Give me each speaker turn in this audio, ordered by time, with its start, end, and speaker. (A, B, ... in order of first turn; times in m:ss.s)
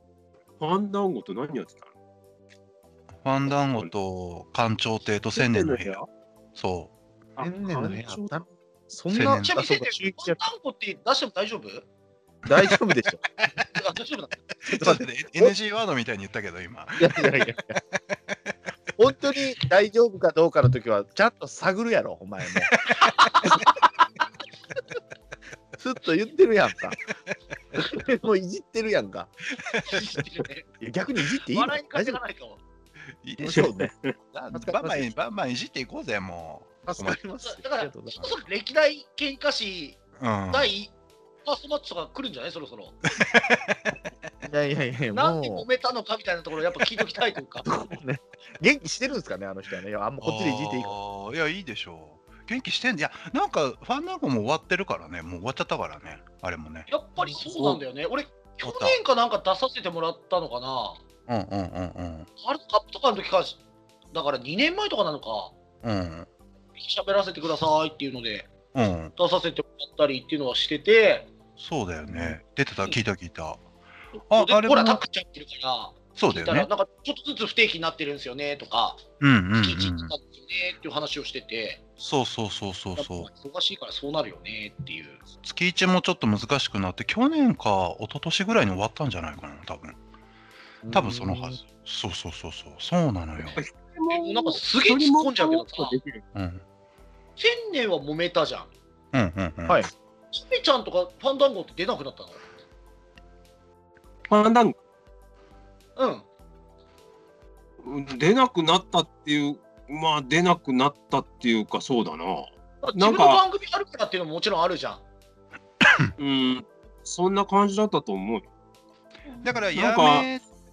0:00.6-0:01.9 A
0:03.2-0:06.0 B
0:05.3-0:06.1 A
0:06.6-0:06.9 B
0:07.4-0:08.5 A
0:07.4-0:10.4 C
0:09.1-0:09.6 B
0:09.2-0:11.9 D
0:12.5-0:13.2 C
0:13.7-0:14.4 D
0:14.6-0:17.5 B
0:14.7-0:15.6 C
0:17.0-0:17.8 C
0:19.0-0:22.7 C
0:23.0-0:23.8 D
0:25.8-0:27.0 C
0:27.8-0:29.3 C
0:29.7-0:30.0 B
0:29.8-0:30.7 D
0:30.8-0:32.2 C
0:31.5-0:32.6 D
0:33.2-0:33.7 B
0:33.4-0:33.9 C
0:33.5-0:34.1 A
0:34.3-0:37.3 B
0:34.5-0:35.1 C
0:36.9-0:38.3 C
0:37.4-0:40.0 D
0:40.2-0:40.7 B
0:40.5-0:40.9 D
0:41.4-0:43.0 D
0:43.2-0:43.8 B
0:44.4-0:45.7 C
0:45.1-0:47.7 D
0:47.6-0:51.0 C
0:50.2-0:56.9 B
0:56.9-1:01.0 D
0:57.4-0:57.8 A
0:58.6-0:59.0 B
1:01.3-1:02.3 B
1:02.4-1:03.6 D
1:04.1-1:05.6 D
1:05.8-1:06.3 B
1:06.8-1:08.5 D
1:08.7-1:09.1 B
1:09.2-1:11.3 D
1:11.6-1:13.6 B
1:12.1-1:12.4 C
1:14.3-1:15.0 B
1:14.3-1:19.0 D
1:16.2-1:16.7 B
1:19.2-1:20.1 B
1:19.6-1:21.8 D
1:22.0-1:23.3 B
1:23.0-1:25.2 D
1:25.4-1:30.0 B
1:30.8-1:31.6 C
1:30.9-1:33.6 B
1:33.4-1:36.2 A
1:34.1-1:36.0 D
1:36.4-1:36.6 B
1:37.4-1:38.7 D
1:39.1-1:39.9 B
1:40.3-1:42.4 D
1:44.3-1:44.8 A
1:46.0-1:46.2 D
1:47.8-1:53.4 A
1:52.8-1:55.0 D
1:56.2-1:58.5 A
1:59.4-2:00.4 B
1:59.8-2:00.3 A